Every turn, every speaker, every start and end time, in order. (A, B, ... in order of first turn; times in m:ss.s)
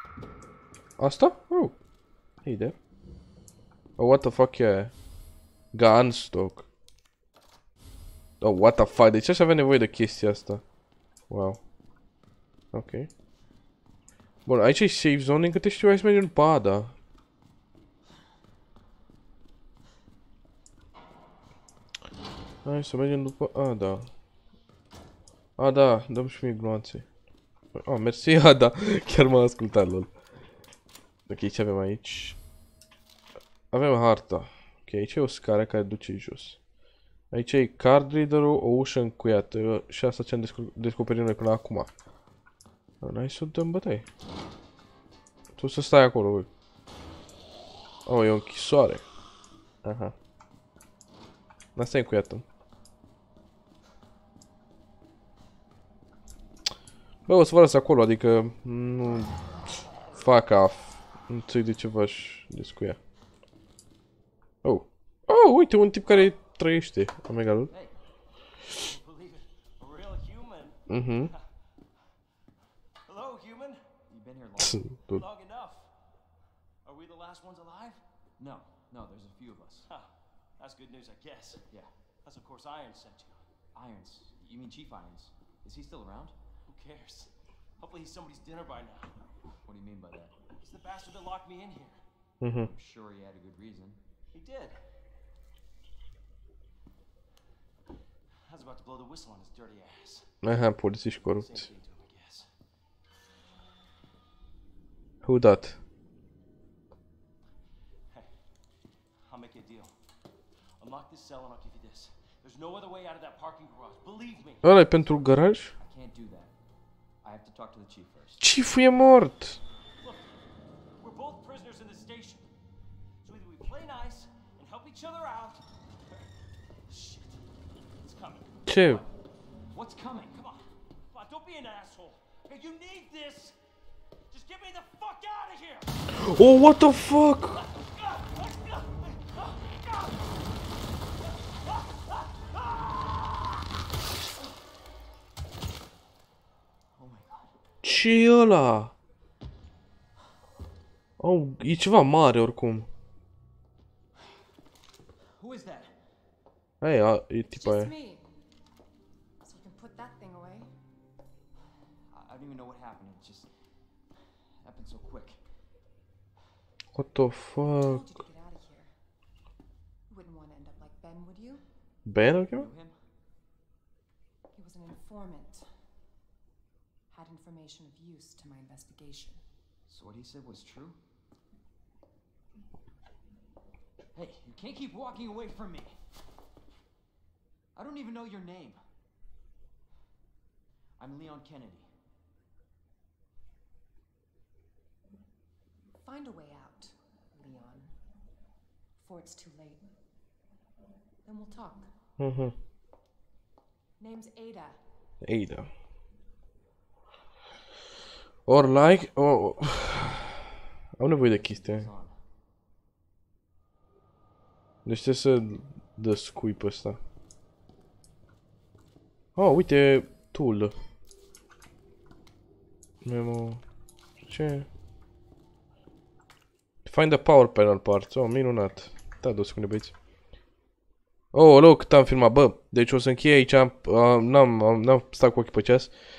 0:01.0-0:01.8 A
0:02.4-0:02.8 A
0:04.0-0:04.9 A
0:05.7-0:06.7 A
0:08.4-0:10.6 A
0:11.3-0:11.6 A
0:12.7-0:13.1 A
0:14.4-0:16.9 A
0:22.6-0:24.1 A
0:25.6-0:27.0 A
0:27.7-0:30.1 A
0:31.3-0:32.4 A
0:33.7-0:36.6 A
0:37.3-0:41.9 A
0:43.0-0:44.1 A
0:45.6-0:46.5 A
0:48.0-0:49.0 A
0:49.8-0:50.1 A
0:51.8-0:52.4 A
0:57.3-0:59.3 A
1:00.2-1:03.0 A
1:04.6-1:07.7 A
1:07.7-1:08.0 B
1:08.7-1:11.4 C
1:10.9-1:11.3 A
1:13.0-1:13.8 C
1:14.1-1:14.9 B
1:14.6-1:15.2 A
1:15.1-1:15.9 C
1:16.8-1:18.0 C
1:18.4-1:19.9 B
1:19.9-1:21.6 C
1:22.2-1:23.4 C
1:23.7-1:26.3 B
1:26.7-1:29.2 C
1:29.6-1:30.3 B
1:30.6-1:32.0 C
1:32.4-1:32.7 A
1:32.6-1:34.0 B
1:34.3-1:34.8 C
1:38.5-1:40.3 C
1:40.4-1:41.7 A
1:41.2-1:42.5 C
1:45.2-1:45.8 A
1:49.3-1:49.9 C
1:50.8-1:55.3 C
1:54.6-1:55.7 A
1:55.8-1:56.5 B
1:57.2-1:58.5 B
1:58.4-1:59.6 A
2:00.0-2:00.4 C
2:01.0-2:02.4 C
2:03.2-2:05.7 C
2:06.9-2:07.4 C
2:08.0-2:09.1 C
2:08.7-2:09.0 A
2:09.7-2:10.4 B
2:10.3-2:13.6 C
2:14.3-2:16.0 C
2:16.1-2:17.6 A
2:17.5-2:20.3 C
2:21.7-2:23.0 C
2:27.0-2:27.5 B
2:27.8-2:28.9 A
2:31.2-2:32.9 A
2:35.4-2:35.9 B
2:36.8-2:37.9 A
2:37.5-2:38.2 D
2:39.4-2:40.7 D
2:42.1-2:43.5 B
2:44.6-2:45.4 B
2:46.9-2:48.0 A
2:47.8-2:48.9 D
2:50.1-2:51.6 D
2:52.0-2:52.7 A
2:52.5-2:52.9 B
2:54.5-2:55.6 D
2:57.1-2:59.4 D
2:59.9-3:01.0 B
3:04.1-3:06.0 B
3:07.7-3:08.8 B
3:11.0-3:11.9 B
3:16.0-3:17.9 D
3:19.0-3:19.8 D
3:21.2-3:21.9 D
3:22.2-3:22.5 A
3:24.0-3:24.8 D
3:25.2-3:25.7 A
3:28.4-3:30.4 A
3:31.0-3:31.9 A
3:31.2-3:32.2 B
3:34.8-3:37.0 A
3:39.4-3:40.7 A
3:43.0-3:43.6 A
3:44.2-3:44.7 A
3:46.8-3:49.9 A
3:51.3-3:55.9 A